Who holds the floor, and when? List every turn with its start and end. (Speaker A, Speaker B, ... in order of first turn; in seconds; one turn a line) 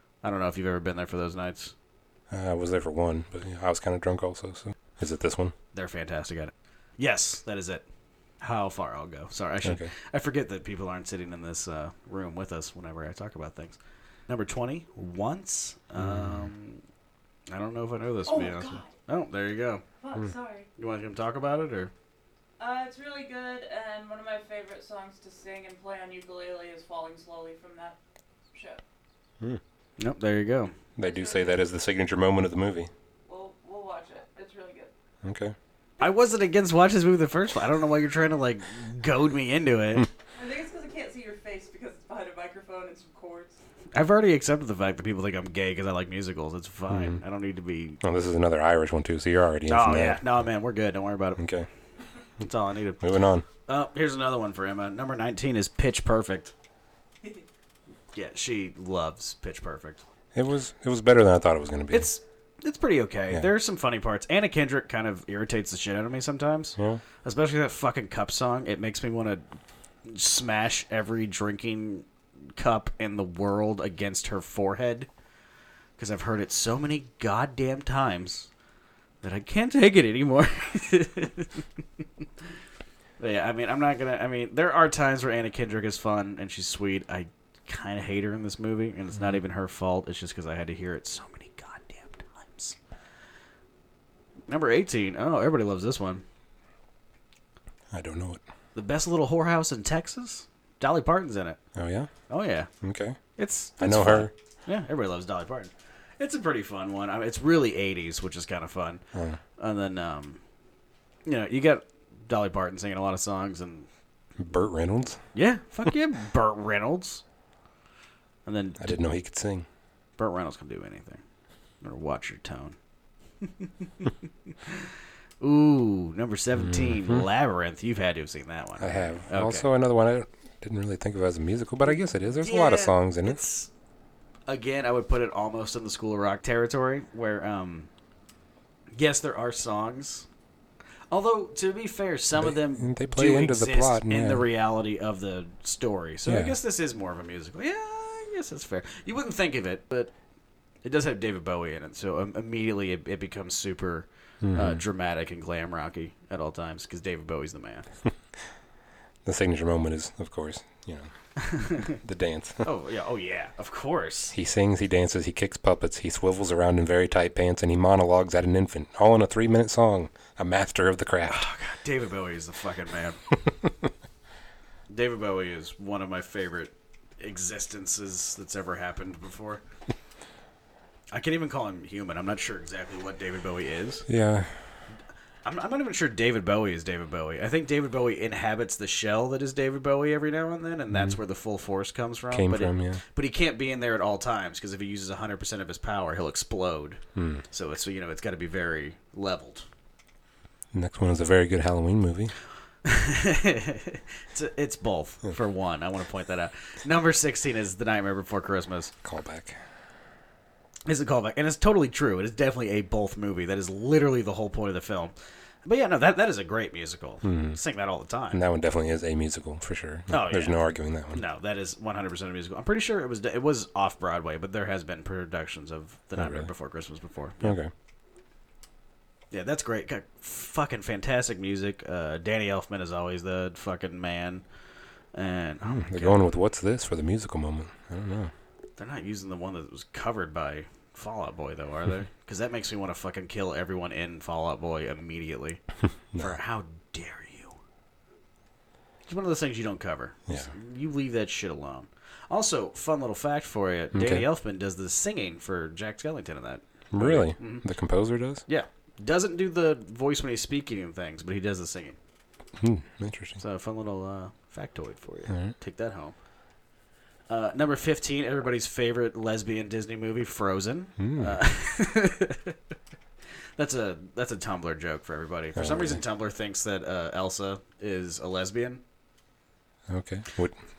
Speaker A: 0.2-1.7
Speaker B: 2.3-5.5
Speaker A: 5.7-7.8
Speaker A: 8.4-16.8
Speaker B: 9.6-9.9
Speaker B: 16.0-16.5
Speaker A: 17.5-19.8
Speaker C: 18.3-18.9
Speaker C: 20.0-20.7
Speaker A: 20.8-21.9
Speaker C: 22.6-28.0
Speaker C: 28.5-28.8
Speaker A: 30.0-30.7
Speaker B: 31.0-32.9
Speaker C: 31.0-31.5
Speaker C: 33.3-34.9
Speaker B: 35.2-35.6
Speaker A: 36.0-40.1
Speaker C: 40.4-43.6
Speaker A: 43.9-48.0
Speaker B: 46.9-47.2
Speaker B: 48.0-50.2
Speaker A: 49.7-51.4
Speaker B: 51.4-51.7
Speaker A: 52.4-53.0
Speaker B: 53.0-53.5
Speaker A: 53.7-56.5
Speaker A: 58.1-60.0
Speaker B: 60.3-62.1
Speaker A: 61.9-69.4
Speaker B: 66.8-67.0
Speaker A: 70.1-75.1
Speaker A: 76.0-78.5
Speaker A: 79.2-82.3
Speaker A: 83.2-92.8
Speaker A: 94.5-96.2
Speaker B: 97.9-98.4
Speaker A: 98.8-101.6
Speaker B: 101.8-102.1
Speaker A: 102.3-102.7
Speaker B: 102.8-103.2
Speaker A: 103.4-109.0
Speaker B: 103.8-104.3
Speaker B: 109.1-109.4
Speaker A: 109.6-110.4
Speaker A: 111.3-113.9
Speaker B: 114.4-115.2
Speaker A: 115.3-117.2
Speaker A: 118.5-119.0
Speaker B: 118.8-119.7
Speaker A: 120.2-121.2
Speaker A: 121.8-122.8
Speaker A: 123.4-129.7
Speaker B: 126.6-127.2
Speaker B: 128.8-133.4
Speaker A: 132.4-133.7
Speaker A: 134.5-137.9
Speaker A: 138.9-140.3
Speaker A: 141.1-150.1
Speaker B: 142.4-144.5
Speaker B: 146.3-146.6
Speaker A: 150.8-157.9
Speaker B: 154.4-154.8
Speaker B: 159.2-161.1
Speaker A: 161.4-162.0
Speaker B: 161.9-162.7
Speaker A: 162.6-164.3
Speaker B: 164.3-171.5
Speaker A: 171.3-173.2
Speaker A: 174.9-179.6
Speaker A: 181.1-184.1
Speaker B: 184.1-184.7
Speaker A: 185.4-199.7
Speaker B: 190.9-191.2
Speaker B: 192.3-193.0
Speaker B: 197.2-197.4
Speaker B: 200.7-202.3
Speaker A: 202.8-208.9
Speaker B: 209.0-209.6
Speaker A: 210.9-215.1
Speaker A: 215.7-218.4
Speaker B: 217.2-217.6
Speaker B: 218.3-221.2
Speaker A: 220.1-220.6
Speaker A: 221.1-227.6
Speaker B: 226.2-226.5
Speaker B: 227.4-227.7
Speaker A: 229.3-234.4
Speaker A: 235.1-236.3
Speaker B: 235.7-238.3
Speaker A: 238.8-245.6
Speaker A: 246.2-247.6
Speaker A: 249.1-257.6
Speaker B: 253.9-254.3
Speaker B: 256.9-258.4
Speaker A: 258.5-262.0
Speaker B: 262.6-263.4
Speaker A: 263.4-266.1
Speaker A: 267.3-272.6
Speaker B: 271.0-271.4
Speaker A: 273.6-278.8
Speaker B: 275.6-276.0
Speaker B: 279.9-280.6